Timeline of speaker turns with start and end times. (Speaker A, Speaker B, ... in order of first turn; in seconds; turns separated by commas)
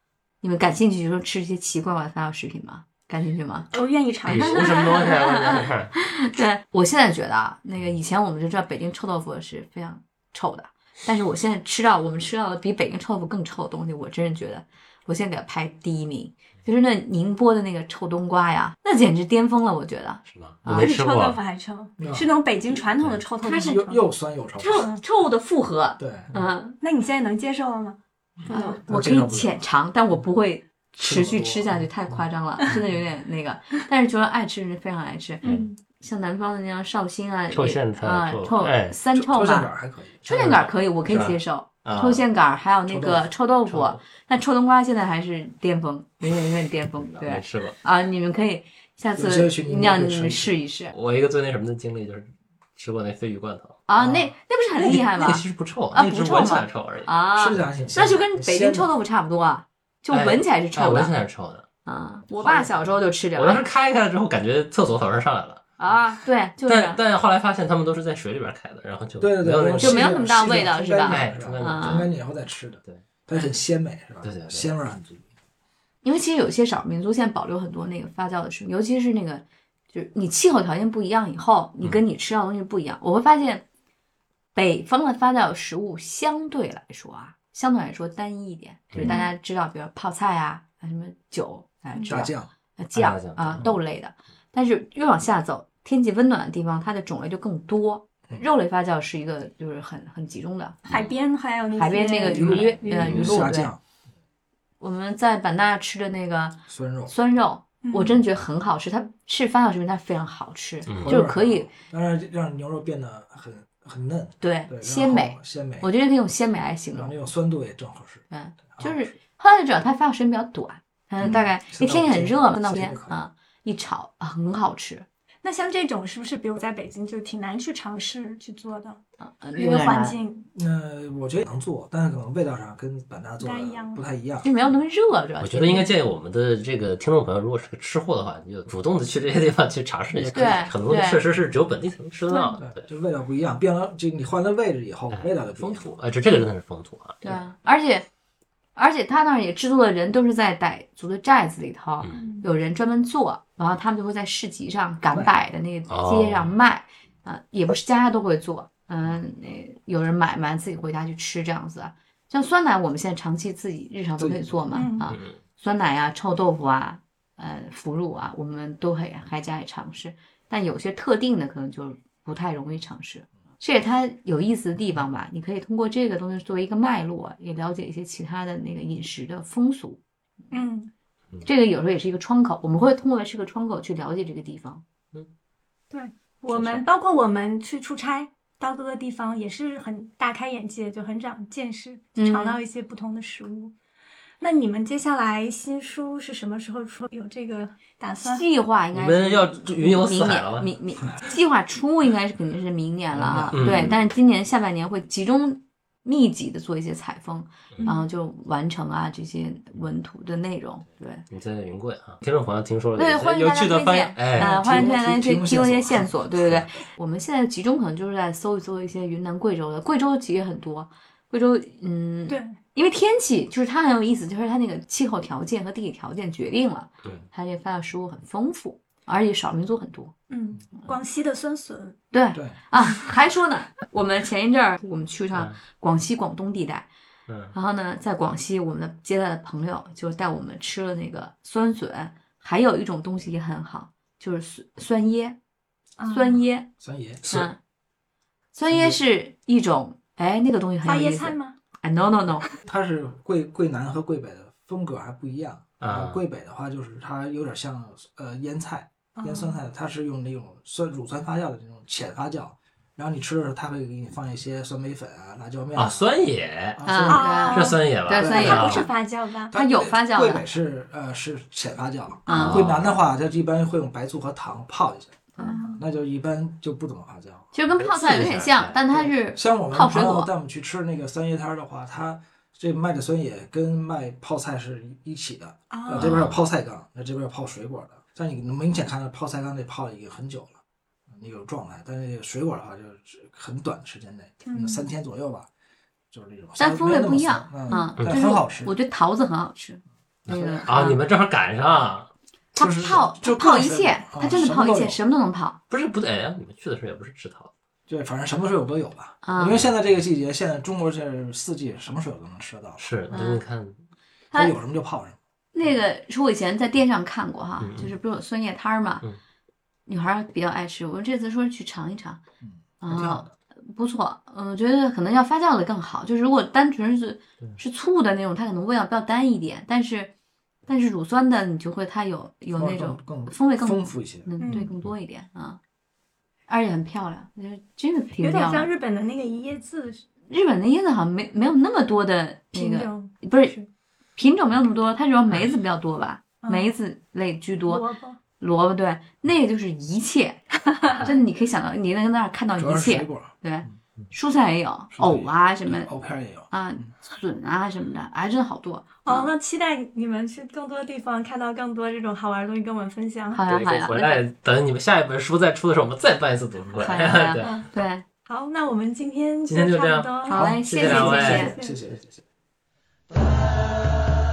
Speaker A: 0.4-3.7, Speaker B: 3.7-5.3, Speaker C: 4.3-5.9, Speaker A: 4.3-20.9, Speaker C: 20.3-21.4, Speaker B: 20.7-24.0, Speaker D: 22.0-22.4, Speaker C: 22.9-23.2, Speaker A: 23.4-23.8, Speaker D: 23.4-24.9, Speaker A: 24.6-26.8, Speaker B: 24.7-25.0, Speaker D: 26.0-26.3, Speaker B: 26.8-28.8, Speaker D: 28.4-29.6, Speaker A: 28.5-50.9, Speaker D: 31.0-32.2, Speaker C: 35.4-35.7, Speaker B: 35.4-35.8, Speaker C: 37.5-39.0, Speaker D: 39.1-40.2, Speaker C: 40.2-42.2, Speaker D: 41.1-41.3, Speaker D: 42.9-43.3, Speaker C: 43.6-44.0, Speaker C: 47.0-47.8, Speaker D: 49.2-50.5, Speaker C: 50.9-53.8, Speaker A: 53.9-61.1, Speaker D: 54.0-54.3, Speaker C: 54.8-57.1, Speaker D: 57.4-58.9, Speaker C: 60.1-61.6, Speaker A: 61.8-63.7, Speaker C: 62.4-65.8, Speaker A: 65.8-67.0, Speaker C: 66.7-70.2, Speaker D: 69.2-75.2, Speaker A: 69.8-72.1, Speaker C: 71.1-72.1, Speaker C: 74.2-74.7, Speaker A: 76.0-83.6, Speaker A: 84.5-100.8, Speaker C: 88.9-89.2, Speaker B: 89.0-89.3, Speaker D: 92.1-92.5, Speaker C: 92.9-93.8, Speaker B: 100.9-103.3, Speaker A: 101.8-103.7, Speaker C: 102.4-103.3, Speaker D: 102.5-103.8, Speaker A: 104.8-111.7, Speaker D: 106.7-107.1, Speaker B: 107.8-108.2, Speaker C: 110.9-111.2, Speaker D: 111.0-115.9, Speaker A: 114.4-117.1, Speaker D: 116.9-119.1, Speaker A: 118.3-125.1, Speaker D: 121.2-123.2, Speaker B: 125.4-129.0, Speaker A: 129.2-130.2, Speaker B: 129.6-130.5, Speaker D: 130.5-134.4, Speaker B: 133.4-134.0, Speaker A: 134.4-135.9, Speaker C: 135.4-142.8, Speaker D: 140.1-140.7, Speaker A: 140.3-141.2, Speaker B: 142.3-142.6, Speaker D: 142.6-146.0, Speaker C: 145.1-147.2, Speaker A: 147.2-148.1, Speaker A: 148.8-180.0, Speaker B: 152.1-152.5, Speaker C: 155.9-156.5, Speaker D: 164.2-164.6, Speaker B: 164.7-165.1, Speaker C: 165.1-165.3, Speaker B: 180.5-180.9, Speaker A: 181.4-184.8, Speaker B: 185.9-193.7, Speaker A: 192.2-192.6, Speaker B: 194.4-198.4, Speaker A: 198.2-211.2, Speaker C: 198.9-200.7, Speaker D: 203.1-204.0, Speaker C: 203.5-204.0, Speaker B: 207.8-208.1, Speaker C: 211.3-214.9, Speaker A: 212.9-230.1, Speaker D: 214.3-216.8, Speaker B: 222.3-222.6, Speaker B: 230.3-232.0, Speaker A: 232.1-236.9, Speaker C: 237.3-237.5, Speaker A: 237.5-245.4, Speaker B: 246.0-246.4, Speaker A: 246.1-246.7, Speaker D: 246.8-247.2, Speaker A: 247.3-247.6, Speaker A: 248.5-252.5, Speaker D: 248.7-249.0, Speaker B: 250.8-251.6, Speaker D: 252.6-266.1, Speaker C: 255.8-256.2, Speaker B: 259.2-259.6, Speaker C: 265.8-268.9, Speaker D: 266.8-267.3, Speaker A: 266.8-268.9, Speaker B: 267.1-269.5, Speaker D: 268.1-268.7, Speaker A: 269.5-270.4, Speaker D: 269.5-277.5, Speaker A: 272.3-272.7, Speaker C: 272.3-273.0, Speaker A: 275.4-275.6, Speaker B: 275.4-275.8, Speaker A: 277.5-280.3, Speaker C: 277.8-278.8, Speaker D: 278.9-295.5, Speaker B: 285.7-286.1, Speaker C: 285.9-286.4, Speaker B: 294.4-294.9, Speaker D: 296.1-298.7, Speaker A: 296.6-301.0, Speaker D: 300.2-300.7, Speaker C: 300.3-302.1, Speaker A: 302.5-305.6, Speaker D: 302.6-305.0, Speaker C: 305.7-307.5, Speaker D: 307.9-312.9, Speaker A: 309.2-309.6, Speaker C: 312.8-313.8, Speaker A: 313.1-313.4, Speaker D: 314.3-315.2, Speaker A: 315.5-319.0, Speaker C: 317.6-317.9, Speaker A: 319.9-322.2, Speaker D: 322.4-323.3, Speaker A: 322.8-330.1, Speaker A: 330.7-335.6, Speaker D: 332.5-334.3, Speaker B: 334.4-334.7, Speaker A: 336.5-338.7, Speaker B: 338.2-340.0, Speaker A: 340.3-343.6, Speaker B: 342.5-343.7, Speaker A: 344.1-347.9, Speaker B: 346.4-346.7, Speaker B: 347.7-348.2, Speaker A: 348.4-355.9, Speaker D: 352.6-353.7, Speaker D: 354.9-356.9, Speaker A: 356.5-359.3, Speaker B: 359.0-363.4, Speaker A: 363.3-364.2, Speaker C: 363.5-367.5, Speaker A: 366.7-368.0, Speaker B: 368.2-371.8, Speaker C: 369.4-371.5, Speaker A: 370.2-371.6, Speaker D: 370.8-372.2